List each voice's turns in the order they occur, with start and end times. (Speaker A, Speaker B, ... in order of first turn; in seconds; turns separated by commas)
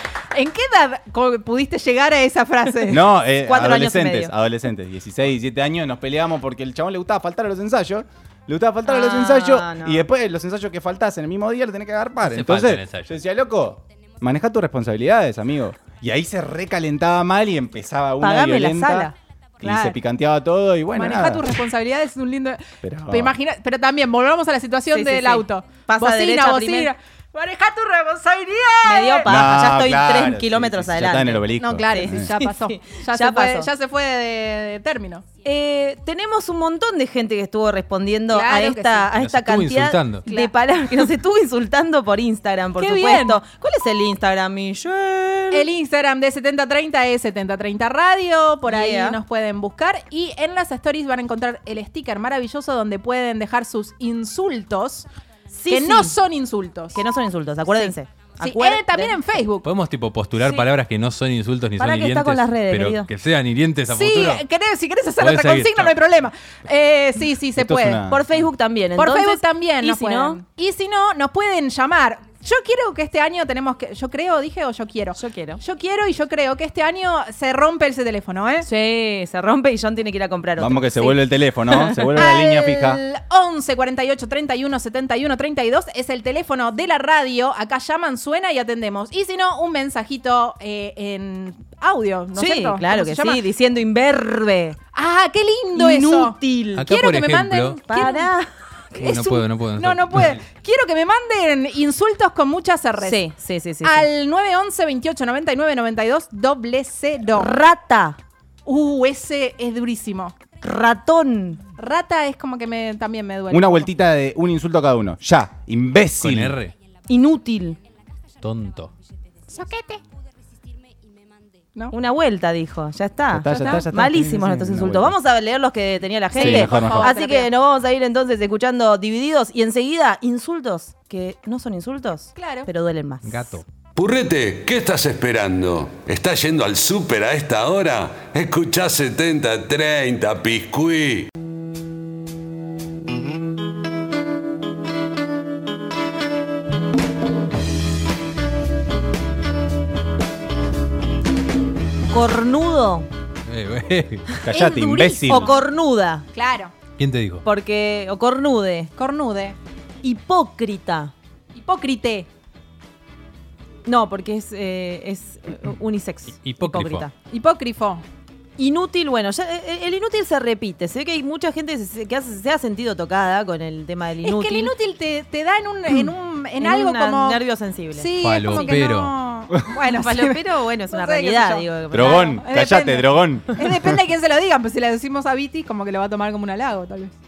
Speaker A: 0.3-3.1, Speaker B: 2.9-21.5, Speaker C: 3.3-4.3, Speaker C: 8.9-10.1, Speaker D: 12.2-13.2, Speaker C: 18.2-19.1, Speaker A: 19.6-19.9, Speaker A: 20.9-29.3, Speaker B: 22.8-23.4, Speaker C: 24.9-26.9, Speaker C: 28.8-33.7, Speaker B: 29.3-32.3, Speaker A: 31.6-35.2, Speaker C: 35.4-45.7, Speaker A: 38.3-39.2, Speaker D: 39.2-40.3, Speaker A: 40.3-41.1, Speaker A: 42.8-43.4, Speaker A: 45.5-55.1, Speaker C: 48.7-49.2, Speaker C: 55.5-56.2, Speaker A: 55.7-57.0, Speaker C: 56.9-59.2, Speaker A: 57.7-59.7, Speaker D: 59.6-64.4, Speaker C: 60.4-60.7, Speaker C: 61.8-63.1, Speaker A: 63.9-68.0, Speaker D: 65.2-66.0, Speaker B: 67.6-68.3, Speaker C: 68.1-70.4, Speaker A: 69.0-78.7, Speaker C: 75.2-75.6, Speaker C: 78.6-82.3, Speaker B: 80.6-83.0, Speaker A: 82.2-93.4, Speaker C: 92.3-94.8, Speaker A: 94.9-98.3, Speaker C: 95.7-96.9, Speaker D: 96.8-97.8, Speaker C: 97.8-99.1, Speaker D: 99.0-100.4, Speaker A: 99.0-103.2, Speaker C: 103.0-104.1, Speaker A: 103.8-107.5, Speaker C: 107.3-108.2, Speaker A: 108.7-110.3, Speaker C: 110.6-111.6, Speaker A: 111.8-113.9, Speaker B: 113.5-116.6, Speaker D: 116.2-116.8, Speaker C: 117.1-117.8, Speaker D: 118.4-118.9, Speaker A: 119.5-120.0, Speaker C: 121.9-133.6, Speaker B: 123.3-125.2, Speaker A: 123.5-123.9, Speaker A: 126.3-127.5, Speaker B: 126.4-127.1, Speaker A: 132.4-132.7, Speaker D: 133.2-133.7, Speaker E: 134.0-141.3, Speaker C: 152.1-153.1, Speaker D: 153.5-154.4, Speaker B: 154.4-155.6, Speaker A: 154.5-155.5, Speaker C: 155.2-156.3, Speaker A: 156.3-156.7, Speaker D: 157.0-157.4, Speaker C: 157.4-158.9, Speaker A: 159.0-159.6, Speaker C: 160.0-161.1, Speaker A: 161.5-162.3, Speaker C: 163.9-167.1, Speaker D: 166.4-167.1, Speaker A: 167.2-168.0, Speaker C: 168.6-174.7, Speaker A: 174.2-177.4, Speaker C: 176.6-178.7, Speaker A: 177.9-187.1, Speaker D: 178.2-179.1, Speaker C: 179.9-182.4, Speaker B: 181.9-183.8